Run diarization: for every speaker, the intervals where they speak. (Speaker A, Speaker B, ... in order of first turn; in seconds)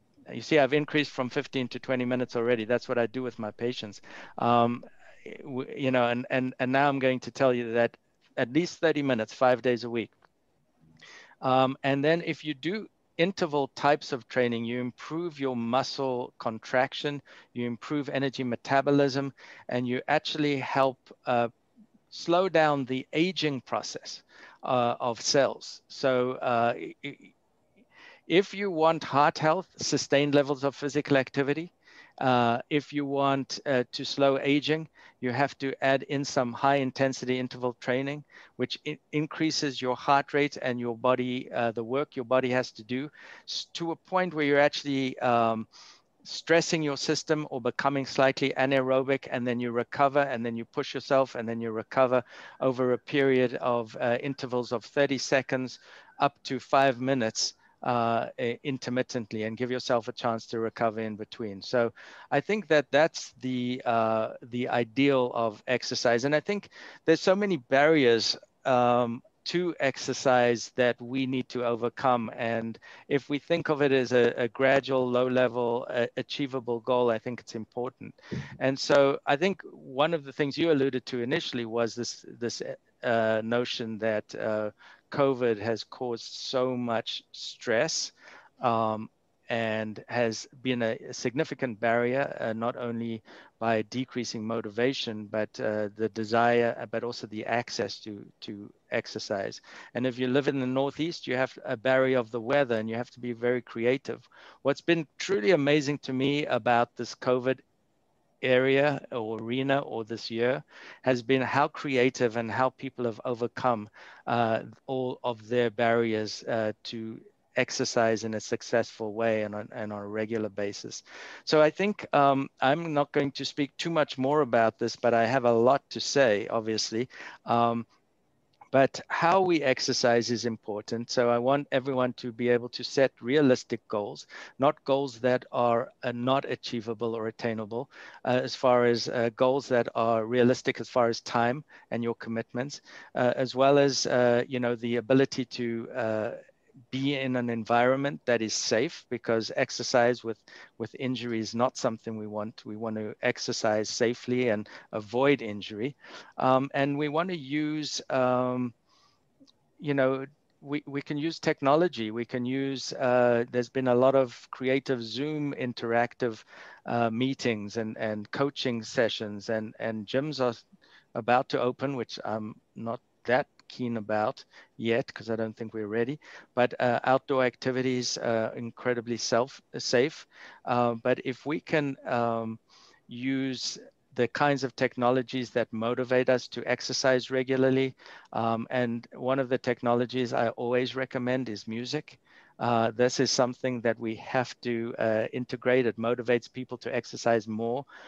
Speaker A: 0.3-10.1, 11.4-21.5, 22.1-27.3, 28.3-45.7, 46.2-107.6, 108.4-127.9, 128.7-146.4, 146.9-158.7, 159.8-170.6, 171.1-197.8